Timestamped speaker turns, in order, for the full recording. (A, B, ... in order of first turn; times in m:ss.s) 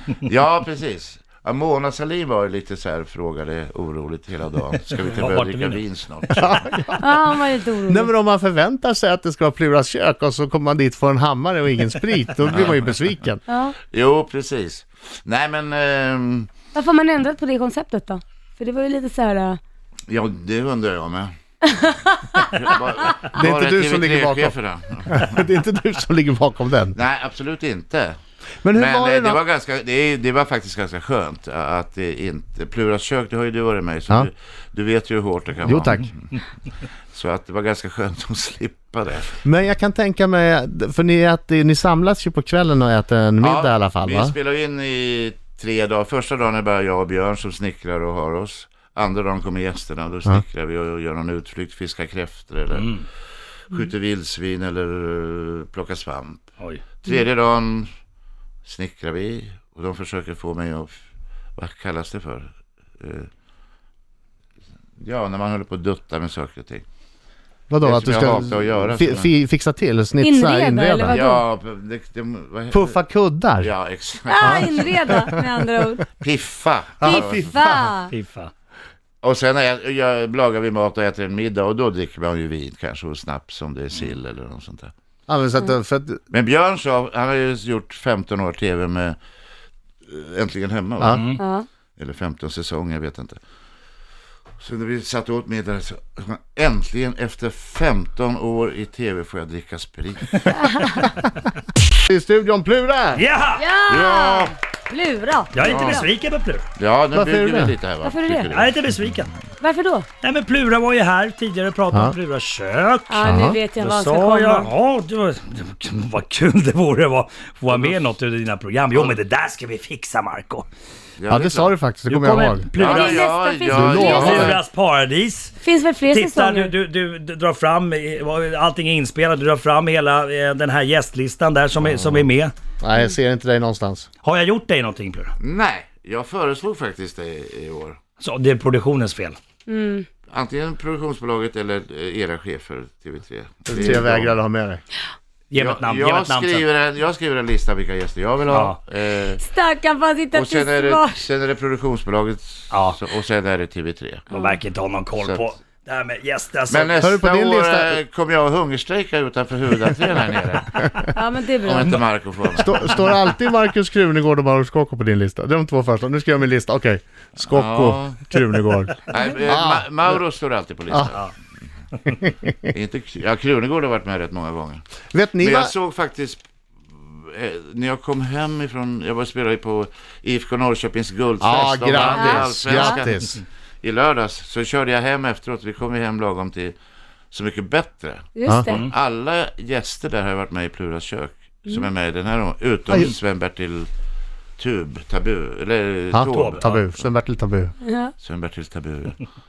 0:00.2-0:06.5 A
0:04.9-0:06.6 B
0:06.4-0:07.0 C
0:07.0-0:08.1 D
0:07.8-0:13.4 C
0:12.4-0:12.9 A
0:13.5-0:13.7 D
0:13.9-0:16.5 A
0:16.7-0:19.6 D
0:20.1-0:21.3 A
0:21.6-0:22.6 D
0:22.4-0:25.4 A
0:23.3-0:24.5 C
0:25.0-0:27.0 C
0:26.9-0:28.2 A
0:28.6-0:29.4 C
0:28.7-0:36.3 A
0:35.6-0:36.1 C
0:37.1-0:39.4 A
0:39.4-0:44.3 C
0:43.4-0:52.9 A
0:52.7-0:53.0 B
0:53.7-0:56.5 A
0:57.0-0:57.9 A
0:58.6-1:01.0 A
1:01.6-1:03.3 A
1:05.0-1:06.8 A
1:07.7-1:11.2 C
1:07.8-1:09.3 A
1:10.2-1:11.4 D
1:11.1-1:13.0 A
1:12.7-1:13.7 C
1:13.6-1:14.9 A
1:14.3-1:16.0 D
1:14.4-1:15.5 C
1:16.2-1:17.5 A
1:17.0-1:17.9 C
1:17.0-1:18.1 D
1:18.1-1:18.5 B
1:19.2-1:24.9 A
1:25.3-1:26.2 C
1:26.3-1:29.2 A
1:30.0-1:31.3 A
1:31.0-1:31.4 B
1:31.4-1:31.6 D
1:32.0-1:33.4 A
1:34.6-1:40.5 A
1:40.5-1:41.1 D
1:41.9-1:43.2 C
1:43.1-1:43.6 B
1:43.6-1:46.1 D
1:43.9-1:44.5 A
1:45.5-1:46.6 B
1:45.6-1:46.0 A
1:46.8-1:48.8 A
1:47.1-1:47.7 C
1:48.0-1:48.5 D
1:48.5-1:49.3 B
1:49.6-1:50.1 D
1:50.2-2:00.6 B
1:51.9-1:52.2 C
1:53.1-1:54.7 D
1:53.2-1:53.6 C
1:57.7-1:58.1 A
2:01.2-2:01.8 A
2:01.3-2:02.7 C
2:02.0-2:03.2 B
2:02.7-2:04.6 A
2:02.8-2:04.6 D
2:03.7-2:04.6 C
2:03.8-2:05.6 B
2:05.6-2:06.7 D
2:06.1-2:12.5 B
2:11.8-2:12.3 C
2:12.8-2:14.1 C
2:14.2-2:15.3 B
2:15.4-2:18.0 A
2:18.2-2:19.4 B
2:19.6-2:20.0 D
2:20.3-2:24.4 A
2:23.6-2:24.8 C
2:25.5-2:26.6 B
2:25.5-2:29.4 A
2:28.5-2:28.8 B
2:29.4-2:31.2 D
2:30.3-2:34.3 A
2:32.7-2:33.0 B
2:34.3-2:34.6 D
2:34.3-2:37.0 B
2:35.2-2:35.4 A
2:36.7-2:41.0 A
2:37.0-2:38.0 C
2:41.1-2:42.0 D
2:41.6-2:43.0 A
2:42.6-2:50.2 C
2:42.8-2:43.2 B
2:47.4-2:48.4 A
2:49.1-2:51.3 A
2:50.9-2:51.2 C
2:52.1-2:52.7 C
2:52.7-2:54.8 A
2:55.1-2:55.7 C
2:55.4-3:03.1 A
3:01.4-3:03.4 C
3:02.1-3:03.1 D
3:03.8-3:06.8 A
3:07.3-3:13.9 A
3:08.3-3:08.8 D
3:08.7-3:08.9 B
3:12.9-3:13.1 C
3:14.6-3:17.0 A
3:16.1-3:17.7 C
3:16.3-3:16.8 B
3:17.8-3:18.1 D
3:18.2-3:19.2 A